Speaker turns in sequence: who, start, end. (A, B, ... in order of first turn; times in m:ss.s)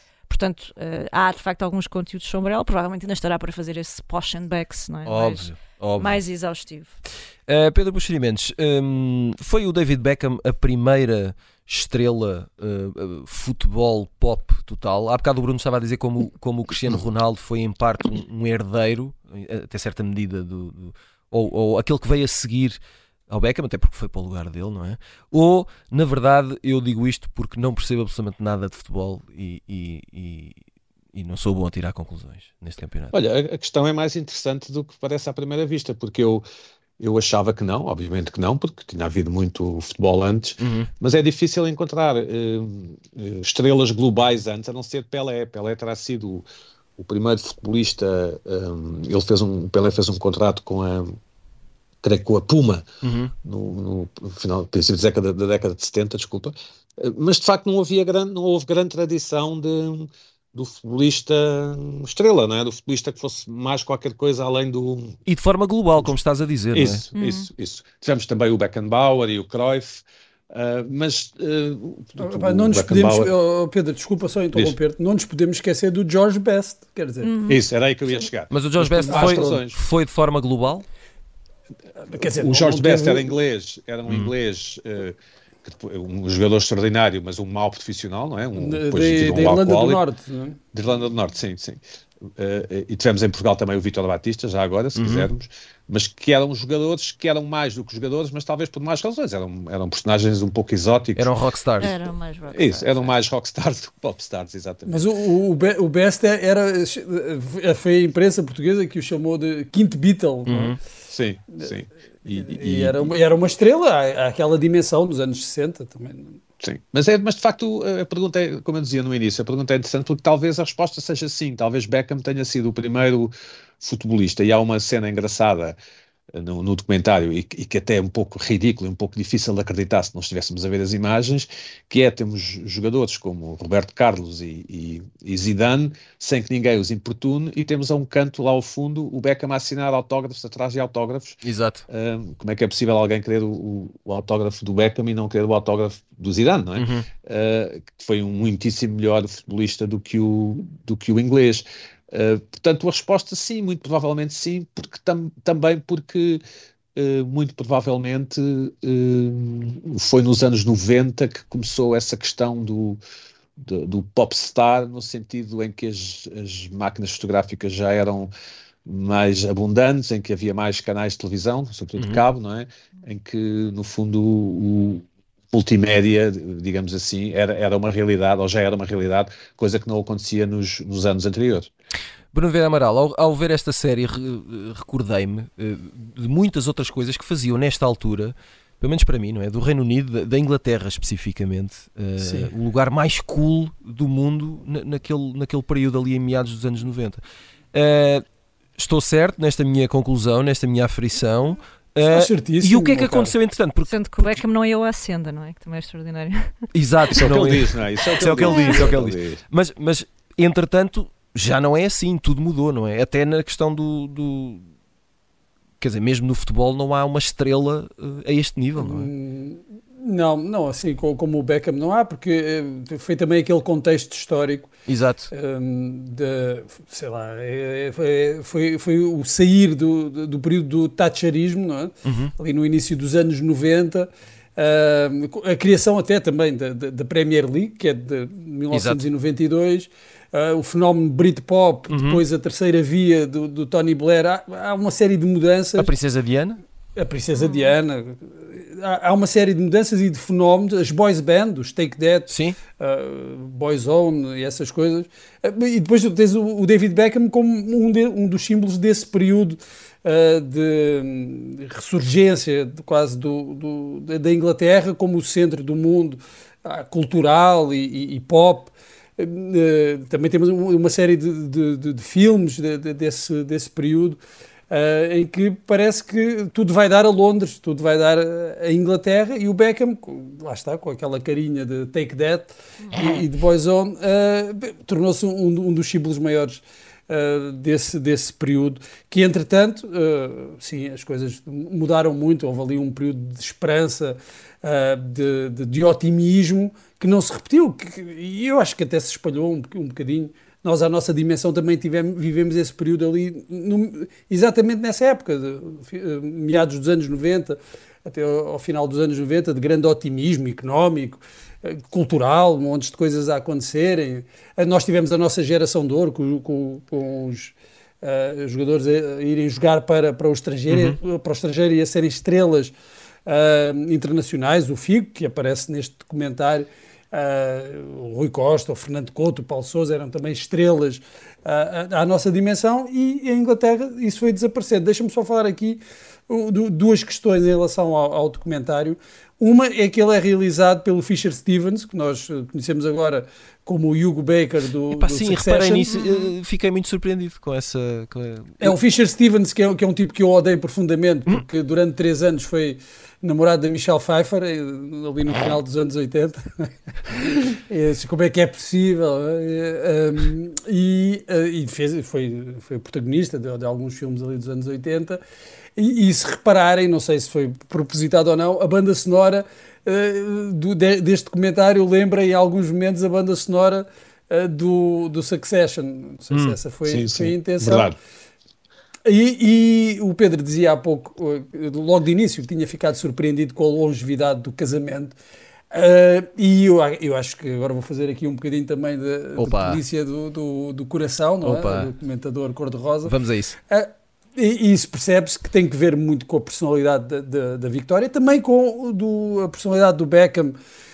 0:00.3-0:07.0 A
0:05.0-0:06.2 B
0:07.5-0:30.6 B
0:31.1-0:33.1 B
0:33.1-0:36.4 C
0:37.0-0:46.4 C
0:40.6-0:40.9 B
0:47.0-0:51.2 C
0:52.0-0:52.9 C
0:53.0-0:53.3 B
0:53.4-1:05.2 C
1:05.3-1:07.0 B
1:06.7-1:13.3 C
1:07.2-1:07.5 A
1:12.2-1:17.3 D
1:17.2-1:17.6 A
1:17.5-1:19.8 C
1:18.5-1:20.8 B
1:19.0-1:19.6 D
1:22.0-1:23.3 D
1:22.2-1:30.0 C
1:24.1-1:24.3 B
1:28.6-1:30.6 D
1:30.7-1:31.8 C
1:32.4-1:41.3 C
1:35.0-1:35.3 B
1:41.2-1:41.9 B
1:41.8-1:43.1 A
1:42.5-1:45.1 C
1:44.9-1:50.8 D
1:50.5-1:50.8 B
1:51.1-1:53.1 C
1:52.3-1:56.4 D
1:56.6-2:05.8 C
2:06.3-2:36.4 C
2:21.4-2:21.8 B
2:26.8-2:27.1 B
2:37.0-2:43.0 C
2:43.6-2:48.3 C
2:48.9-3:01.7 C
2:52.0-2:52.2 B
3:02.3-3:17.2 B
3:12.2-3:12.5 D
3:17.7-3:18.2 B
3:18.8-3:24.4 B
3:22.1-3:23.4 D
3:23.9-3:26.6 A
3:26.7-3:34.6 B
3:27.1-3:29.4 C
3:28.4-3:28.7 A
3:35.8-3:39.1 B
3:38.8-3:44.7 D
3:44.9-3:45.3 B
3:45.3-4:05.9 D
3:52.0-3:52.3 B
3:58.7-3:59.0 B
4:01.9-4:02.2 B
4:05.8-4:06.6 B
4:07.0-4:34.2 D
4:07.3-4:07.8 A
4:12.3-4:12.6 B
4:34.7-5:22.7 D
5:20.7-5:21.0 B
5:23.3-5:45.9 D
5:44.9-5:48.8 B
5:45.9-5:46.3 A
5:48.6-6:05.2 D
6:05.8-6:18.0 D
6:16.3-6:16.6 B
6:16.8-6:18.0 C
6:19.1-6:25.2 D
6:25.7-6:33.2 D
6:29.4-6:29.8 B
6:31.4-6:31.9 B
6:33.0-6:33.6 B
6:33.7-6:40.6 D